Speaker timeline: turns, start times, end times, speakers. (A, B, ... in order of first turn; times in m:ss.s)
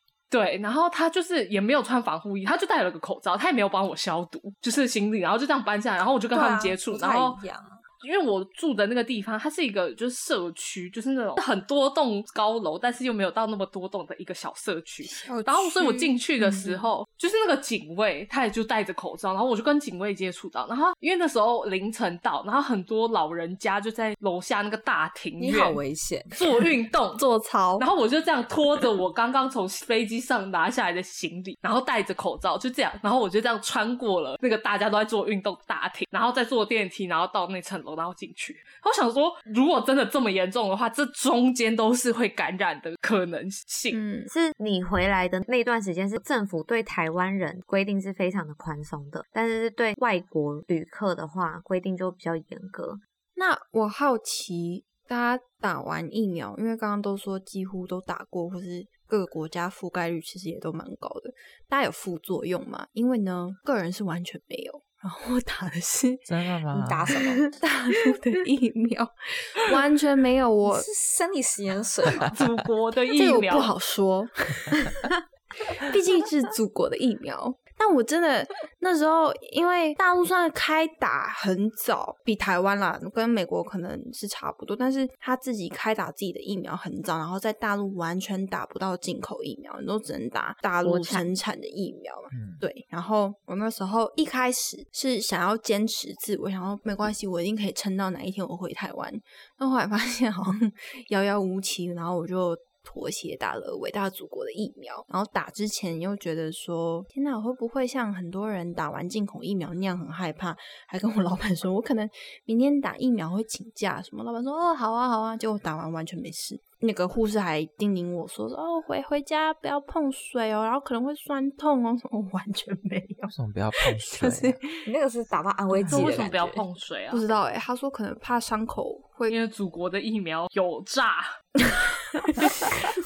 0:00.3-0:07.4 A
0:06.3-0:07.8 B
0:08.0-0:25.8 A
0:15.0-0:16.7 C
0:25.4-0:26.4 B
0:26.3-0:27.2 A
0:27.2-0:27.9 C
0:27.8-0:44.0 A
0:43.9-0:44.3 C
0:44.3-0:53.0 D
0:53.4-1:06.3 C
1:06.3-1:07.1 E
1:06.7-1:07.5 B
1:07.6-1:10.9 C
1:10.6-1:12.4 B
1:12.2-1:13.7 A
1:13.2-1:15.1 C
1:15.7-2:04.8 C
1:30.8-1:31.3 D
1:32.3-1:32.6 E
2:03.3-2:04.6 E
2:04.8-2:06.6 B
2:05.9-2:07.2 A
2:07.1-2:09.4 C
2:09.3-2:11.4 A
2:11.6-2:12.9 C
2:12.4-2:12.8 A